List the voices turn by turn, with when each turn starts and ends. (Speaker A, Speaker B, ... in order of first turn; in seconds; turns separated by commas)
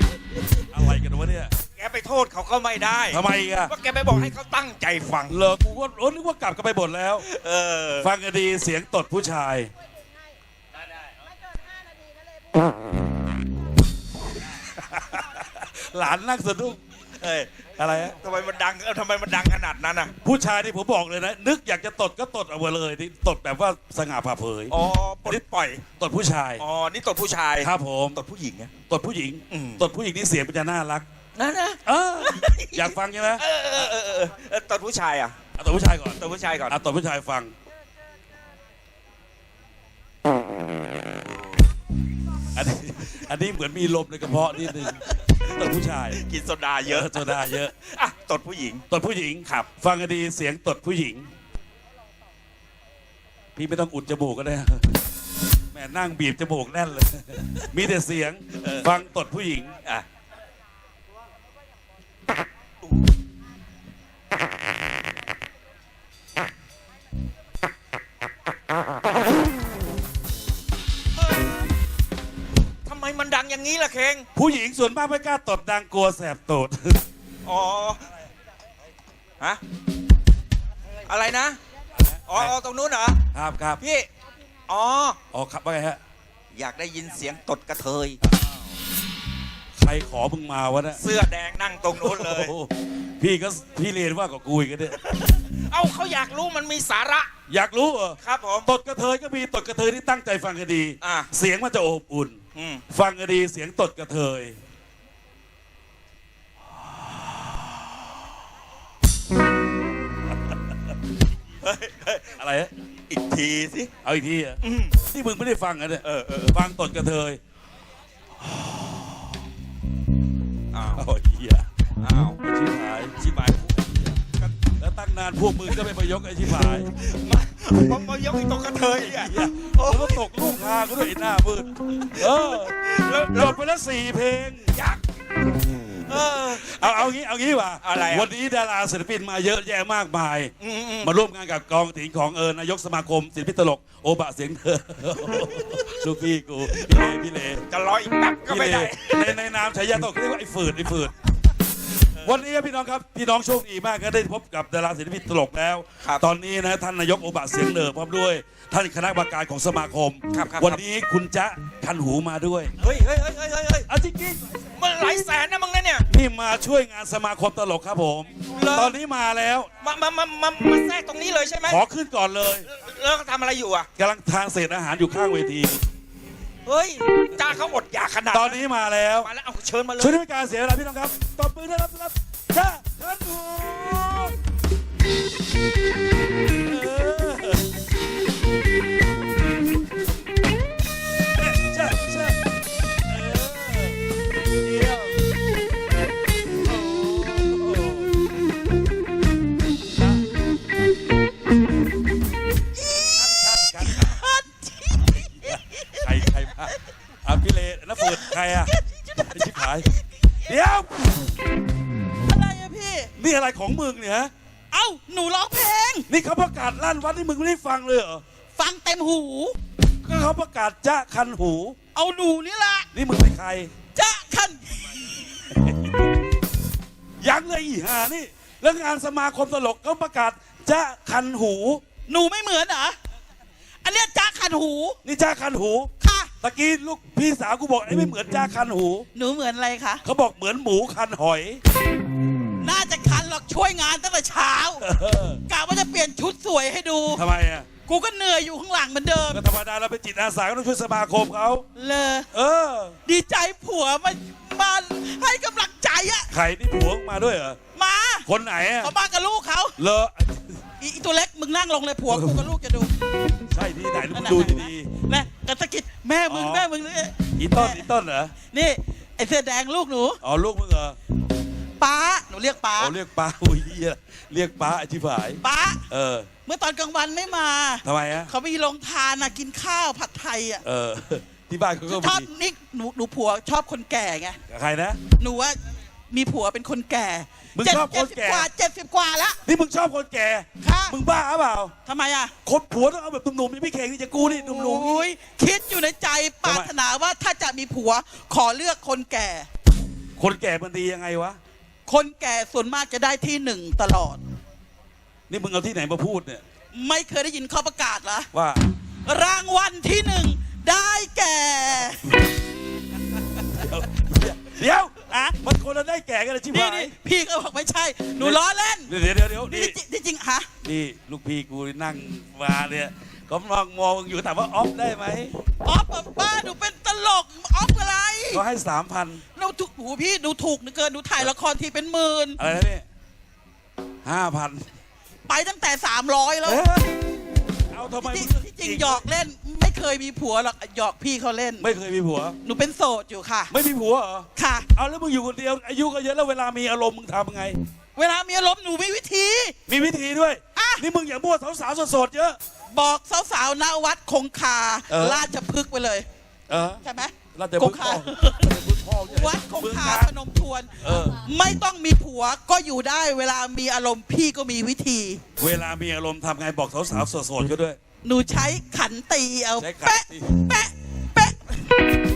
Speaker A: 0.7-1.5, Speaker B: 1.8-5.4, Speaker A: 3.1-3.7, Speaker A: 5.3-7.2, Speaker B: 7.2-8.1, Speaker A: 8.0-9.7, Speaker A: 14.9-16.8, Speaker B: 17.2-20.1, Speaker A: 17.8-18.2, Speaker A: 20.2-24.7, Speaker B: 24.7-25.8, Speaker A: 25.3-26.6, Speaker B: 26.6-28.7, Speaker A: 27.6-28.2, Speaker A: 28.9-31.1, Speaker B: 29.5-29.8, Speaker B: 31.4-35.4, Speaker A: 31.9-33.4, Speaker A: 35.6-37.5, Speaker B: 36.2-36.8, Speaker A: 42.5-46.2, Speaker B: 46.1-48.8, Speaker A: 46.9-47.7, Speaker A: 48.9-51.3, Speaker A: 53.6-55.0, Speaker A: 55.7-59.8, Speaker B: 58.6-58.9, Speaker B: 72.9-74.3, Speaker A: 74.3-77.0, Speaker B: 77.5-78.0, Speaker B: 81.1-81.6, Speaker A: 82.0-82.5, Speaker B: 82.3-83.2, Speaker A: 83.3-83.8, Speaker B: 83.8-84.1, Speaker B: 84.7-85.2, Speaker A: 85.3-86.0, Speaker B: 86.5-88.2, Speaker A: 89.8-91.0, Speaker B: 91.0-92.5, Speaker A: 92.0-95.0, Speaker B: 95.0-97.3, Speaker A: 97.5-102.4, Speaker B: 98.2-98.7, Speaker B: 101.0-101.3, Speaker B: 102.5-102.8, Speaker A: 102.9-104.6, Speaker B: 111.6-112.3, Speaker A: 112.4-112.7, Speaker B: 113.1-113.9, Speaker A: 114.0-117.4, Speaker B: 114.6-115.0, Speaker B: 116.0-116.6, Speaker B: 120.7-121.1, Speaker A: 121.0-121.7, Speaker B: 122.0-122.4, Speaker A: 122.4-123.2, Speaker B: 123.2-124.6, Speaker A: 124.8-126.9, Speaker B: 126.5-130.2, Speaker A: 129.2-132.8, Speaker B: 132.1-133.6, Speaker A: 133.3-134.7, Speaker B: 134.8-135.0, Speaker B: 136.1-137.1, Speaker A: 136.7-147.7, Speaker B: 137.8-138.3, Speaker B: 140.6-141.1, Speaker B: 145.2-145.9, Speaker B: 146.7-147.1, Speaker B: 147.7-149.4, Speaker A: 148.5-151.1, Speaker A: 152.2-162.8, Speaker B: 160.3-160.8, Speaker B: 162.8-163.9, Speaker A: 163.9-164.6, Speaker B: 164.8-166.1, Speaker A: 166.1-169.7, Speaker B: 168.5-169.0, Speaker B: 169.8-171.8, Speaker A: 171.7-172.7, Speaker B: 172.7-173.9, Speaker A: 174.0-175.8, Speaker B: 176.7-178.6, Speaker A: 178.3-179.3, Speaker B: 179.2-180.2, Speaker A: 180.0-184.4, Speaker A: 186.6-187.7, Speaker A: 191.4-192.4, Speaker A: 193.1-194.0, Speaker A: 194.6-195.3, Speaker A: 196.7-198.1, Speaker C: 202.8-206.2, Speaker A: 203.2-204.2, Speaker A: 205.4-209.9, Speaker C: 208.0-210.5, Speaker A: 210.5-211.3, Speaker C: 212.2-213.1, Speaker A: 213.2-214.3, Speaker C: 214.7-216.1, Speaker A: 216.1-218.2, Speaker C: 218.6-219.6, Speaker A: 220.1-221.8, Speaker C: 221.9-222.9, Speaker A: 222.9-223.7, Speaker C: 223.9-225.3, Speaker A: 227.2-231.8, Speaker C: 232.1-233.0, Speaker C: 233.8-235.0, Speaker A: 235.0-235.9, Speaker C: 236.0-236.3, Speaker A: 236.4-239.1, Speaker C: 239.1-240.0, Speaker A: 240.0-241.6, Speaker C: 242.6-244.8, Speaker A: 244.8-245.4, Speaker C: 245.5-247.2, Speaker A: 247.1-247.7, Speaker C: 247.9-249.4, Speaker A: 249.3-251.7, Speaker C: 251.8-252.3, Speaker A: 252.3-253.0, Speaker C: 253.1-256.3, Speaker A: 256.3-257.6, Speaker C: 257.8-258.3, Speaker A: 258.3-258.9, Speaker C: 258.8-259.8, Speaker A: 259.8-260.6, Speaker C: 260.8-262.9, Speaker A: 262.1-262.4, Speaker A: 263.5-264.9, Speaker C: 264.1-267.9, Speaker A: 266.3-266.7, Speaker A: 267.4-268.3, Speaker C: 268.5-270.2, Speaker A: 270.2-271.0, Speaker C: 271.8-272.9, Speaker A: 272.8-276.3, Speaker C: 275.4-275.8, Speaker C: 276.5-280.6, Speaker A: 277.8-278.3, Speaker A: 280.6-282.3, Speaker C: 281.9-284.4, Speaker A: 284.5-285.0, Speaker C: 285.2-285.6, Speaker C: 286.1-289.4, Speaker A: 287.6-288.5, Speaker A: 289.5-291.7, Speaker C: 290.6-291.0, Speaker C: 291.9-292.3, Speaker A: 292.4-295.1, Speaker C: 294.2-299.5, Speaker A: 296.4-296.7, Speaker A: 300.2-301.4, Speaker C: 301.9-304.2, Speaker A: 305.3-306.4, Speaker C: 306.7-308.3, Speaker A: 308.3-308.6, Speaker C: 309.1-312.1, Speaker A: 313.6-316.9, Speaker C: 315.1-315.4, Speaker C: 316.5-318.9, Speaker A: 318.2-319.8, Speaker C: 319.5-320.5, Speaker A: 320.6-325.3, Speaker C: 325.6-328.4, Speaker A: 328.3-329.2, Speaker C: 329.4-332.4, Speaker A: 332.4-332.9, Speaker A: 334.1-334.6, Speaker C: 335.3-336.6, Speaker A: 336.4-337.0, Speaker A: 337.7-339.0, Speaker C: 338.0-341.7, Speaker A: 341.6-342.4, Speaker C: 342.4-343.5, Speaker A: 343.5-347.6, Speaker C: 344.4-344.7, Speaker C: 348.0-349.6, Speaker A: 349.7-352.4, Speaker C: 350.6-350.8, Speaker C: 352.7-356.1, Speaker A: 354.9-355.3, Speaker A: 356.5-356.8, Speaker C: 356.8-358.5, Speaker A: 357.4-360.1, Speaker C: 359.1-365.2, Speaker A: 360.8-361.2, Speaker A: 365.4-367.8, Speaker C: 368.0-371.6, Speaker A: 369.6-370.4